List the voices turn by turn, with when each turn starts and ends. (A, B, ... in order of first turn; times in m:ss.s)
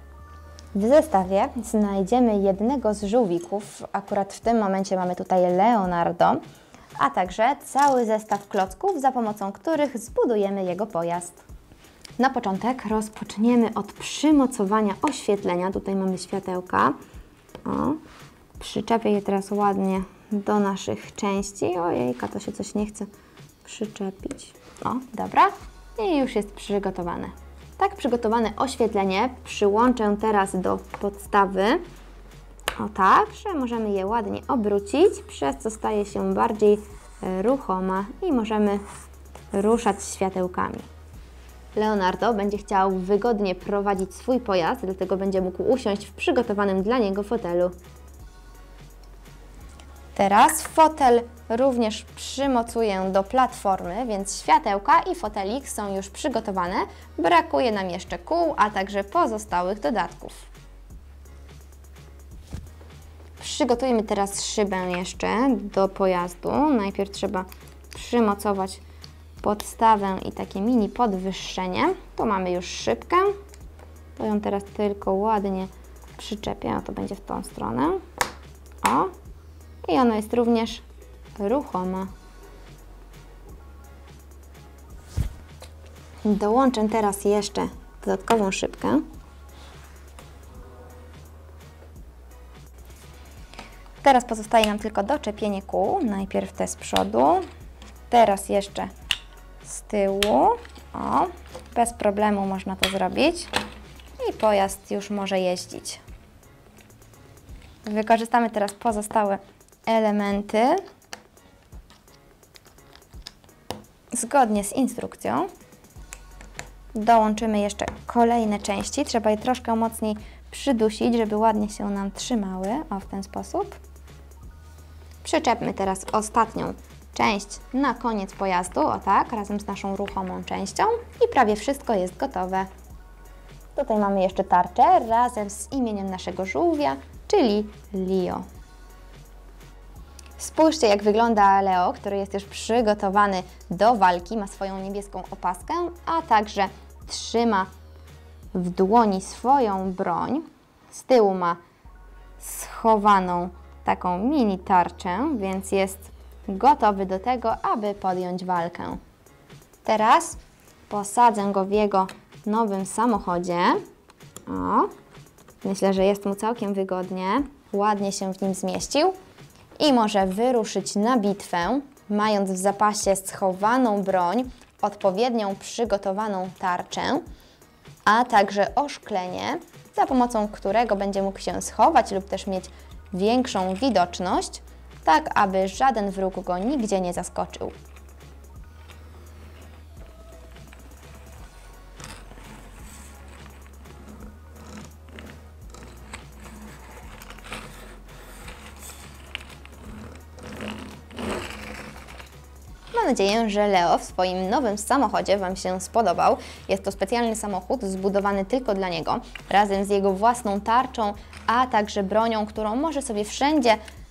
0:00.7-0:06.4 A
0:07.0-0:11.4 A
0:12.2-0:17.0 A
0:17.6-0:18.0 A
0:18.6-0:23.1 A
0:23.6-0:31.8 A
0:32.8-0:38.8 A
0:39.5-0:40.9 A
0:41.8-0:47.7 A
0:50.2-1:00.5 A
1:03.4-1:08.8 A
1:09.4-1:13.4 A
1:14.2-1:18.0 A
1:18.8-1:19.1 A
1:19.8-1:20.8 A
1:21.4-1:22.1 A
1:26.2-1:29.0 A
1:34.0-1:37.4 A
1:38.1-1:38.9 A
1:39.6-1:43.5 A
1:44.2-1:46.0 A
1:47.8-1:50.8 A
1:54.1-1:55.5 A
1:56.9-2:03.8 A
2:05.2-2:12.7 A
2:13.8-2:18.4 A
2:20.4-2:27.7 A
2:28.5-2:31.6 A
2:32.4-2:39.0 A
2:39.8-2:40.4 A
2:40.9-2:43.8 A
2:44.5-2:44.9 A
2:45.6-2:49.2 A
2:49.8-2:57.2 A
2:58.0-3:07.8 A
3:22.9-3:33.8 A